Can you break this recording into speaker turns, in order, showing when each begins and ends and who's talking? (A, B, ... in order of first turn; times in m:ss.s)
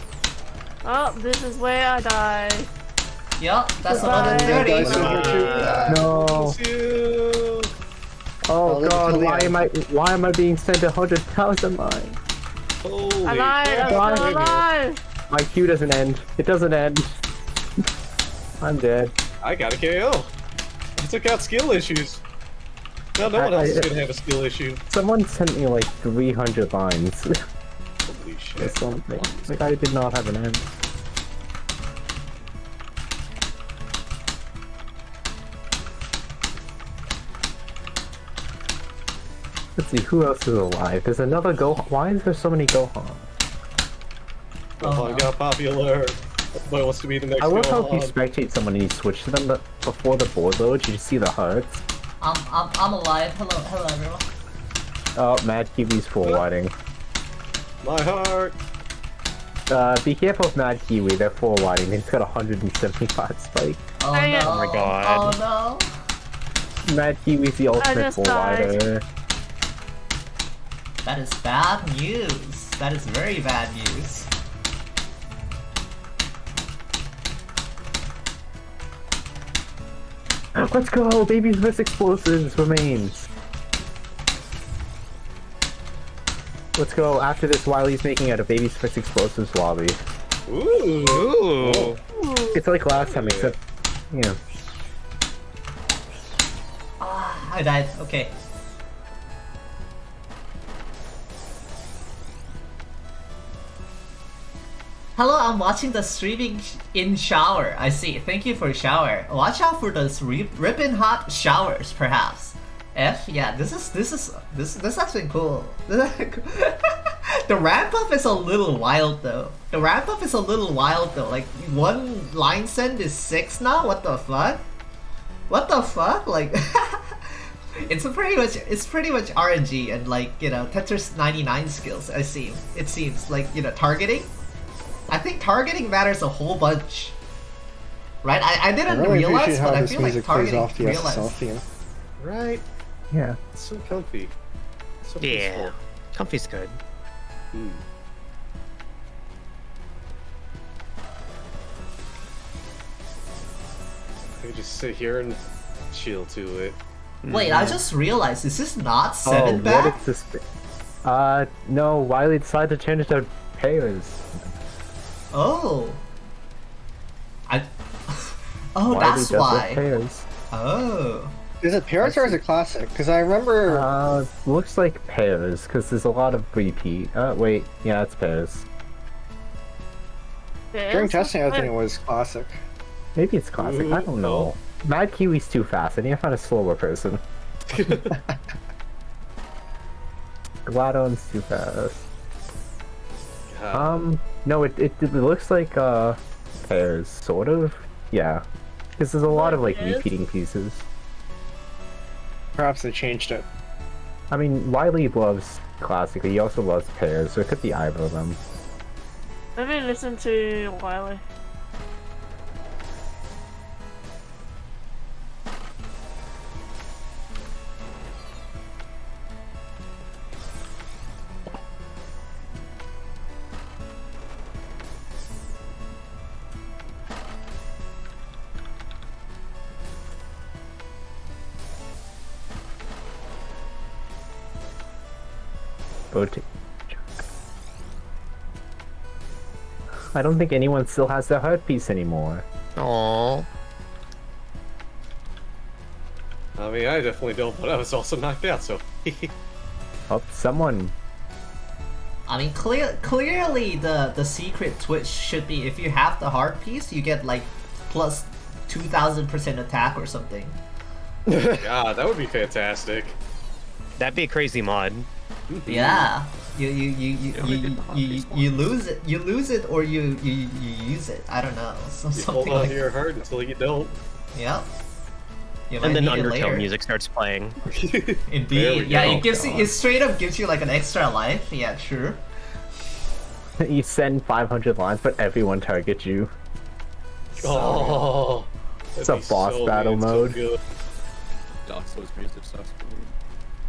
0:00.8-0:02.7 A
0:03.4-0:06.0 B
0:03.9-0:05.2 A
0:04.0-0:06.0 C
0:04.8-0:07.7 D
0:05.9-0:06.6 E
0:08.5-0:12.2 E
0:08.6-0:09.6 C
0:12.8-0:14.6 D
0:13.2-0:15.0 A
0:13.8-0:14.5 E
0:15.3-0:17.2 E
0:18.6-0:19.1 E
0:19.4-0:20.3 D
0:21.0-0:22.2 D
0:23.2-0:24.8 D
0:23.2-0:23.9 E
0:24.9-0:27.3 E
0:28.0-0:28.8 D
0:28.6-0:30.7 E
0:39.8-0:43.3 E
0:44.8-0:48.2 D
0:44.8-0:45.3 B
0:47.4-0:51.8 E
0:52.2-0:54.3 B
0:55.2-0:56.7 E
0:57.8-0:58.6 D
0:59.7-1:03.8 E
1:04.0-1:05.9 B
1:04.1-1:04.6 A
1:04.5-1:05.4 F
1:06.8-1:09.0 E
1:07.8-1:08.8 A
1:11.0-1:14.3 B
1:20.6-1:23.3 E
1:26.8-1:30.0 E
1:30.5-1:33.5 D
1:31.0-1:32.0 F
1:32.5-1:33.6 E
1:34.1-1:34.4 E
1:37.0-1:38.3 B
1:45.2-1:56.8 B
1:57.4-2:04.6 B
2:05.5-2:14.3 B
2:15.1-2:17.2 B
2:18.2-2:21.4 B
2:18.8-2:21.6 C
2:22.2-2:22.6 D
2:23.1-2:23.4 E
2:23.5-2:24.3 D
2:25.0-2:25.8 D
2:25.2-2:26.8 F
2:27.5-2:27.8 D
2:34.4-2:36.8 D
2:37.2-2:37.8 F
2:37.3-2:40.0 B
2:39.2-2:40.4 E
2:41.0-2:44.5 E
2:45.3-2:46.0 B
2:47.5-2:49.8 B
2:48.8-2:50.3 E
2:50.5-2:51.3 B
2:51.6-2:53.9 C
2:52.0-2:52.4 E
2:53.7-2:58.7 E
3:00.7-3:01.7 A
3:00.9-3:02.6 C
3:03.2-3:07.2 E
3:03.6-3:04.5 D
3:07.7-3:08.2 D
3:10.7-3:12.0 E
3:13.5-3:14.0 D
3:13.7-3:18.4 E
3:19.0-3:20.8 E
3:19.3-3:20.0 A
3:22.6-3:23.4 C
3:24.3-3:28.4 E
3:29.6-3:31.2 A
3:56.1-3:57.2 E
4:00.1-4:02.4 E
4:02.8-4:03.5 F
4:06.6-4:09.3 D
4:10.1-4:10.9 E
4:12.3-4:20.6 B
4:21.6-4:23.2 D
4:24.0-4:25.1 F
4:25.5-4:26.1 D
4:25.7-4:32.8 B
4:27.4-4:28.6 G
4:32.1-4:34.0 D
4:34.3-4:34.7 B
4:35.7-4:36.7 B
4:35.8-4:37.6 F
4:37.6-4:39.5 D
4:38.3-4:42.2 B
4:43.6-4:46.3 E
4:47.4-4:50.6 D
4:47.6-4:48.0 B
4:49.0-4:50.4 E
4:51.7-4:53.1 G